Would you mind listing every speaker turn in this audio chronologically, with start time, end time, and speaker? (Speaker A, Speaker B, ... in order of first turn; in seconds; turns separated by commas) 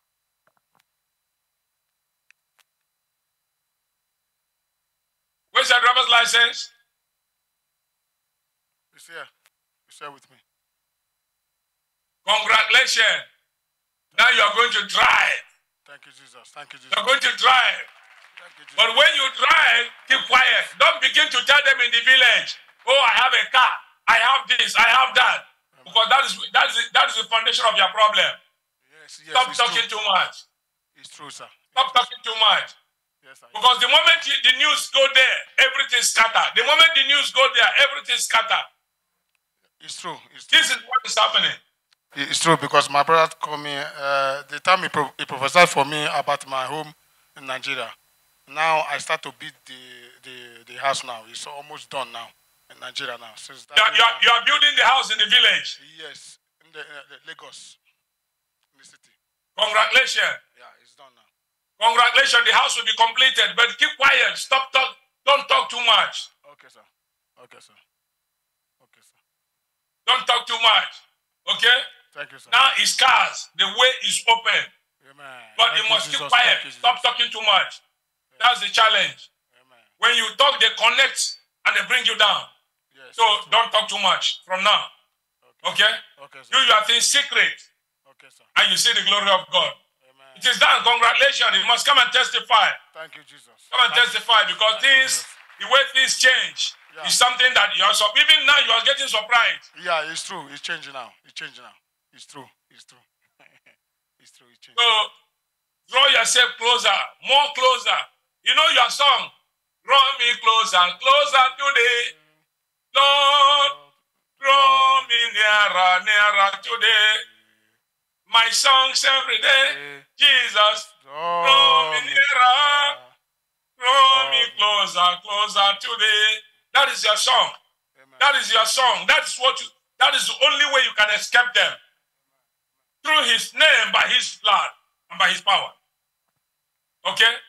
Speaker A: 5.5-6.7, Speaker B: 8.9-9.3, Speaker B: 9.9-10.4, Speaker A: 12.2-13.3, Speaker B: 14.1-14.6, Speaker A: 14.1-15.4, Speaker B: 15.8-17.1, Speaker A: 16.9-17.9, Speaker B: 18.4-19.0, Speaker A: 18.8-28.4, Speaker B: 20.1-20.8, Speaker B: 25.7-26.1, Speaker B: 28.8-29.9, Speaker A: 29.3-30.4, Speaker B: 30.9-32.1, Speaker A: 31.7-32.8, Speaker B: 33.2-33.8, Speaker A: 33.5-38.7, Speaker B: 39.8-40.8, Speaker A: 40.5-41.6, Speaker B: 42.1-48.0, Speaker B: 48.5-54.3, Speaker A: 53.7-55.8, Speaker B: 55.8-57.8, Speaker B: 58.7-59.1, Speaker A: 59.5-60.4, Speaker B: 60.5-61.3, Speaker A: 61.8-66.3, Speaker B: 66.4-67.8, Speaker B: 68.8-69.2, Speaker A: 70.0-71.8, Speaker B: 72.1-72.6, Speaker A: 72.5-74.7, Speaker B: 75.0-77.0, Speaker A: 75.6-77.8, Speaker A: 78.4-79.2, Speaker B: 79.5-79.9, Speaker A: 80.0-82.5, Speaker B: 82.9-83.6, Speaker A: 83.2-84.9, Speaker B: 85.4-86.7, Speaker A: 85.6-86.0, Speaker A: 86.5-87.6, Speaker B: 88.0-88.5, Speaker A: 88.5-89.8, Speaker B: 90.0-90.5, Speaker A: 90.3-92.8, Speaker B: 92.9-95.4, Speaker A: 93.7-99.6, Speaker B: 96.9-97.2, Speaker B: 99.7-104.8, Speaker A: 104.8-105.1, Speaker A: 105.9-112.1, Speaker B: 111.1-112.3, Speaker A: 112.9-113.7, Speaker B: 113.1-115.6, Speaker A: 114.4-117.2, Speaker B: 116.8-117.3, Speaker A: 118.3-120.9, Speaker B: 119.6-120.0, Speaker B: 120.6-123.1, Speaker A: 121.4-123.0, Speaker A: 123.8-127.6, Speaker B: 124.0-124.9, Speaker B: 127.9-128.3, Speaker A: 128.2-131.8, Speaker A: 133.0-135.7, Speaker A: 137.0-137.4